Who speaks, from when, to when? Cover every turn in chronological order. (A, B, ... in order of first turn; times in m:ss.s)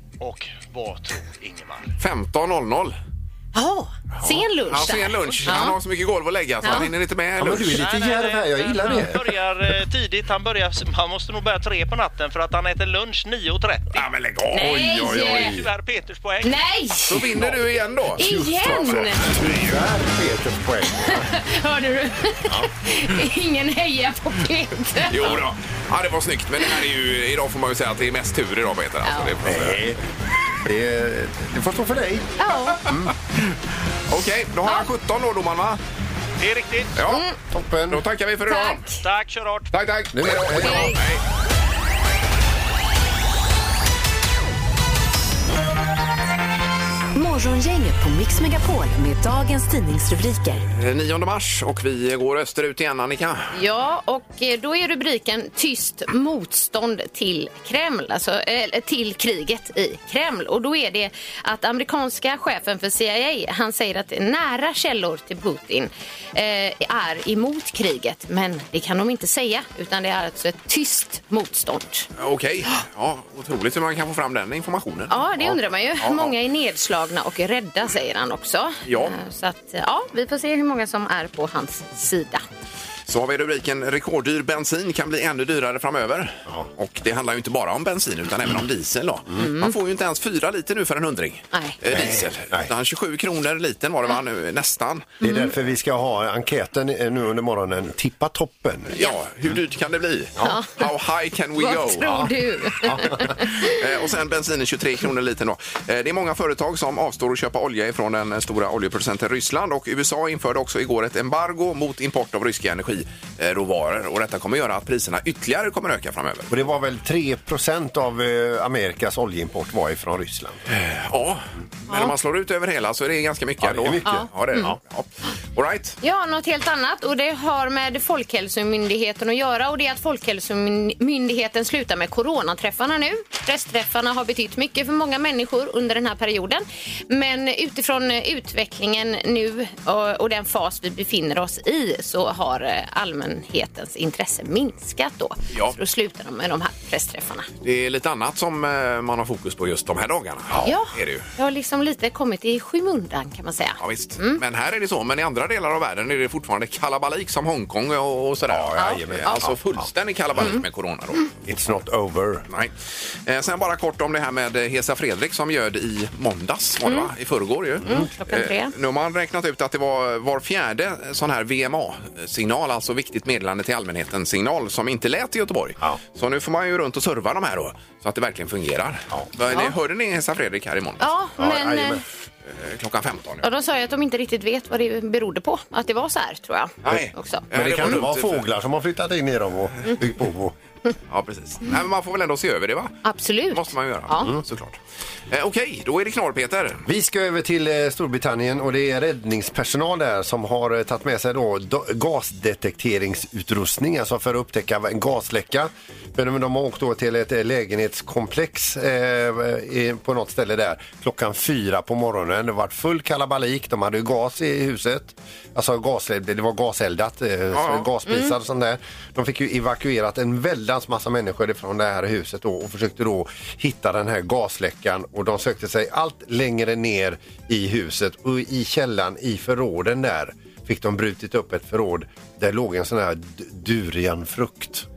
0:00.2-0:01.9 A
0:02.0-0:03.0 B
0:03.5-0:05.8 C
0:04.1-0:07.8 B
0:06.6-0:06.9 C
0:07.4-0:09.4 D
0:07.7-0:14.0 A
0:13.9-0:15.5 B
0:14.5-0:15.6 C
0:14.6-0:15.6 D
0:15.0-0:16.6 A
0:16.4-0:17.5 C
0:17.1-0:19.6 B
0:18.2-0:19.4 C
0:18.2-0:21.2 D
0:20.9-0:25.4 C
0:25.1-0:29.8 B
0:29.0-0:29.4 C
0:29.4-0:30.0 D
0:30.6-0:33.1 D
0:32.4-0:32.9 C
0:34.1-0:35.8 B
0:36.4-0:36.9 A
0:37.0-0:37.2 B
0:37.1-0:37.4 C
0:37.5-0:38.0 D
0:37.9-0:38.9 B
0:38.5-0:39.0 C
0:39.0-0:39.7 A
0:39.7-0:41.2 B
0:40.1-0:41.0 D
0:40.6-0:41.0 C
0:47.1-0:50.6 E
0:50.7-0:53.5 B
0:53.5-1:12.1 C
1:12.2-1:16.3 B
1:15.1-1:22.4 C
1:18.8-1:19.2 B
1:23.1-1:35.1 B
1:29.4-1:29.7 C
1:31.9-1:32.7 D
1:35.2-1:38.9 D
1:35.2-1:35.5 C
1:38.9-1:42.3 B
1:40.4-1:40.9 C
1:41.6-1:43.8 C
1:42.0-1:42.3 D
1:42.8-1:43.3 D
1:43.6-1:56.5 B
1:56.5-2:00.6 D
2:00.7-2:06.0 B
2:03.6-2:04.8 D
2:04.0-2:04.7 C
2:06.0-2:27.5 C
2:27.6-2:31.3 B
2:30.6-2:34.4 C
2:33.8-2:41.3 B
2:38.5-2:39.9 D
2:38.8-2:39.5 C
2:41.4-2:42.4 D
2:43.2-3:01.1 B
2:47.8-2:48.1 D
2:47.8-2:48.7 C
2:59.5-2:59.7 C
3:01.0-3:02.0 C
3:01.4-3:02.0 D
3:02.4-3:03.4 B
3:03.4-3:08.0 C
3:06.8-3:08.4 B
3:07.5-3:10.5 D
3:11.1-3:14.8 B
3:13.0-3:14.3 C
3:15.3-3:16.8 B
3:16.8-3:54.8 D
3:37.5-3:37.9 B
3:38.1-3:38.3 C